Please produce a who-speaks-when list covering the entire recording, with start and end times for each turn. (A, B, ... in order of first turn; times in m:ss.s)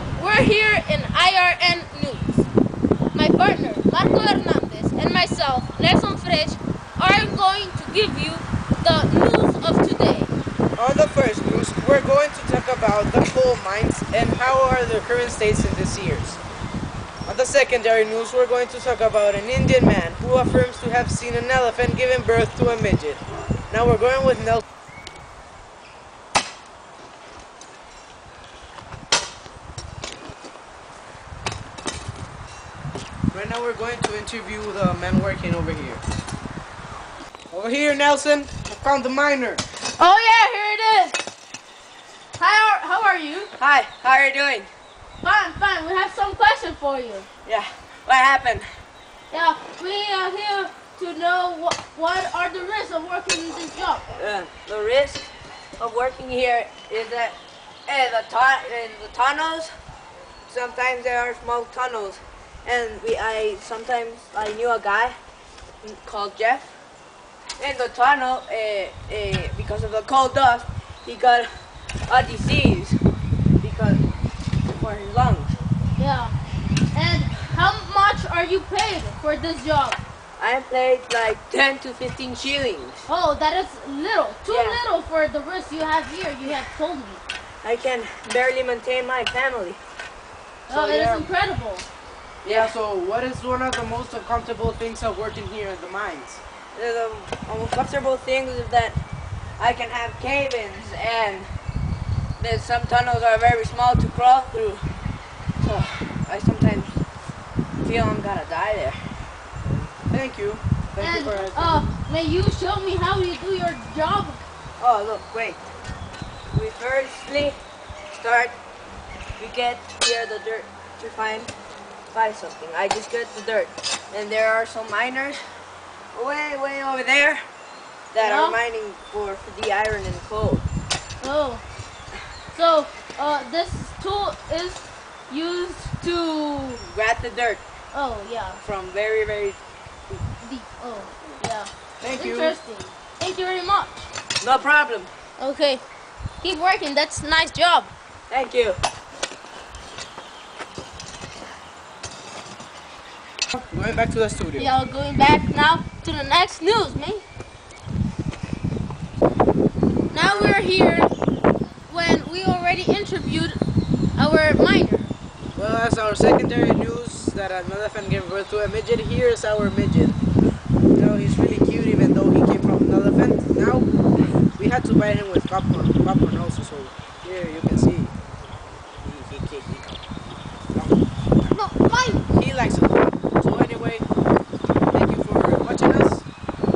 0:00.2-0:02.5 A
0:03.1-0:10.3 A
0:10.8-0:16.4 B
0:17.3-0:24.6 B
0:33.3-0:36.0 B
0:37.5-0:39.6 B
0:40.0-0:41.2 A
0:42.4-0:43.5 A
0:43.6-0:44.7 C
0:45.2-0:47.3 A
0:47.4-0:48.7 C
0:49.3-0:54.0 A
0:54.2-0:59.7 C
1:00.5-1:05.2 C
1:05.8-1:06.8 C
1:07.6-1:11.5 C
1:12.1-1:13.0 C
1:13.6-1:14.0 C
1:14.7-1:15.6 C
1:16.0-1:16.3 A
1:16.9-1:20.0 A
1:20.4-1:23.1 C
1:23.1-1:27.2 A
1:24.5-1:24.8 C
1:27.6-1:29.8 C
1:30.7-1:31.3 B
1:30.7-1:31.9 A
1:32.4-1:32.8 C
1:32.4-1:36.4 B
1:36.8-1:39.0 C
1:39.6-1:41.5 C
1:42.4-1:44.8 C
1:45.6-1:46.9 C
1:47.8-1:49.0 C
1:49.6-1:51.9 B
1:51.0-1:54.4 A
1:54.8-1:55.7 C
1:56.5-1:57.6 C
1:58.1-1:58.6 C
1:59.4-2:01.5 C
2:02.1-2:05.5 C
2:06.1-2:07.4 C
2:08.1-2:10.6 C
2:08.2-2:08.6 A
2:11.2-2:11.6 A
2:12.5-2:16.8 A
2:16.8-2:17.6 C
2:17.9-2:18.6 A
2:18.6-2:19.6 C
2:20.4-2:24.1 A
2:22.0-2:22.6 B
2:24.4-2:25.1 C
2:25.4-2:25.8 A
2:26.4-2:27.9 A
2:28.3-2:28.8 C
2:33.5-2:34.7 B
2:34.6-2:37.2 A
2:40.1-2:41.1 A
2:40.2-2:40.5 B
2:41.9-2:43.6 A
2:44.2-2:45.1 A
2:45.6-2:50.2 B
2:50.9-2:53.9 B
2:54.6-2:58.1 B
2:59.0-3:00.0 B
3:00.7-3:01.6 B
3:01.5-3:02.2 A
3:02.3-3:04.1 B
3:04.9-3:06.3 B